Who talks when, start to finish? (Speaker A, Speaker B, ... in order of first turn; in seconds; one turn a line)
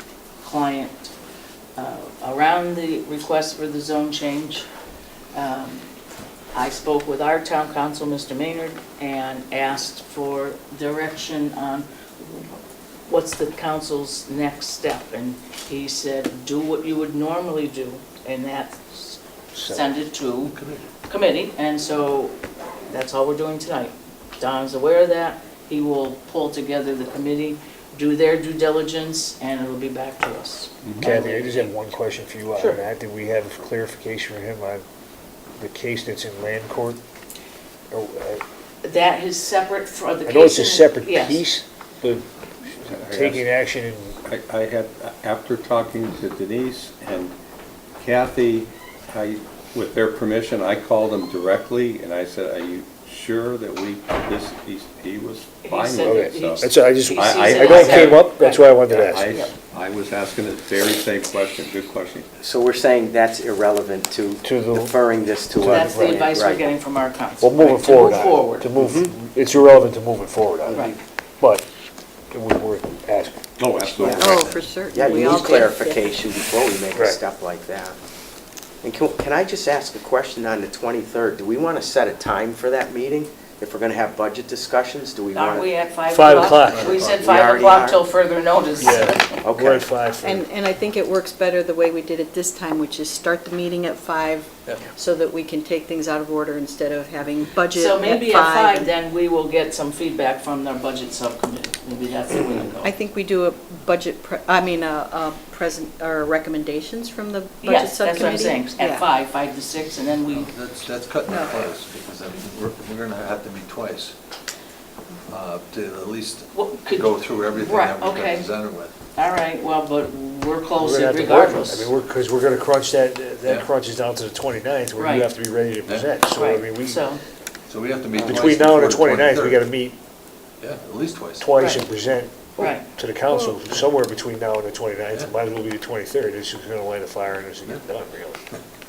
Speaker A: 0.4-1.1
Speaker A: 1.8-4.7
Speaker A: 5.3-5.9
Speaker A: 6.5-11.9
Speaker A: 13.1-20.5
Speaker B: 19.5-19.9
Speaker C: 20.4-20.9
Speaker A: 21.1-22.4
Speaker A: 22.9-31.7
Speaker D: 30.8-31.1
Speaker B: 31.0-34.8
Speaker B: 35.6-37.0
Speaker B: 37.9-38.4
Speaker A: 38.8-41.5
Speaker B: 40.2-44.2
Speaker D: 42.9-43.5
Speaker D: 44.2-47.3
Speaker D: 48.0-62.3
Speaker A: 55.6-58.8
Speaker B: 56.1-59.2
Speaker E: 62.4-66.6
Speaker B: 64.4-64.9
Speaker B: 65.5-66.2
Speaker A: 65.6-68.7
Speaker B: 67.4-70.8
Speaker E: 68.8-69.1
Speaker A: 70.7-71.0
Speaker B: 71.4-71.6
Speaker B: 72.3-73.4
Speaker D: 73.6-74.7
Speaker E: 74.0-74.2
Speaker F: 74.0-76.1
Speaker E: 74.9-78.0
Speaker E: 78.8-85.7
Speaker A: 85.3-89.4
Speaker B: 86.1-86.8
Speaker C: 86.6-87.3
Speaker E: 87.1-88.0
Speaker B: 88.8-90.4
Speaker E: 89.4-89.8
Speaker F: 90.2-98.9
Speaker A: 97.7-102.9
Speaker F: 102.8-109.1
Speaker A: 107.6-110.5
Speaker C: 110.2-114.1
Speaker F: 111.3-111.7
Speaker C: 115.3-118.9
Speaker A: 116.5-118.5
Speaker A: 119.2-121.9
Speaker B: 120.8-127.0
Speaker A: 125.0-125.3
Speaker C: 125.8-126.2
Speaker A: 126.3-127.2
Speaker C: 127.7-129.7
Speaker B: 128.2-129.9
Speaker C: 130.6-131.5
Speaker B: 131.4-138.4
Speaker A: 132.6-132.8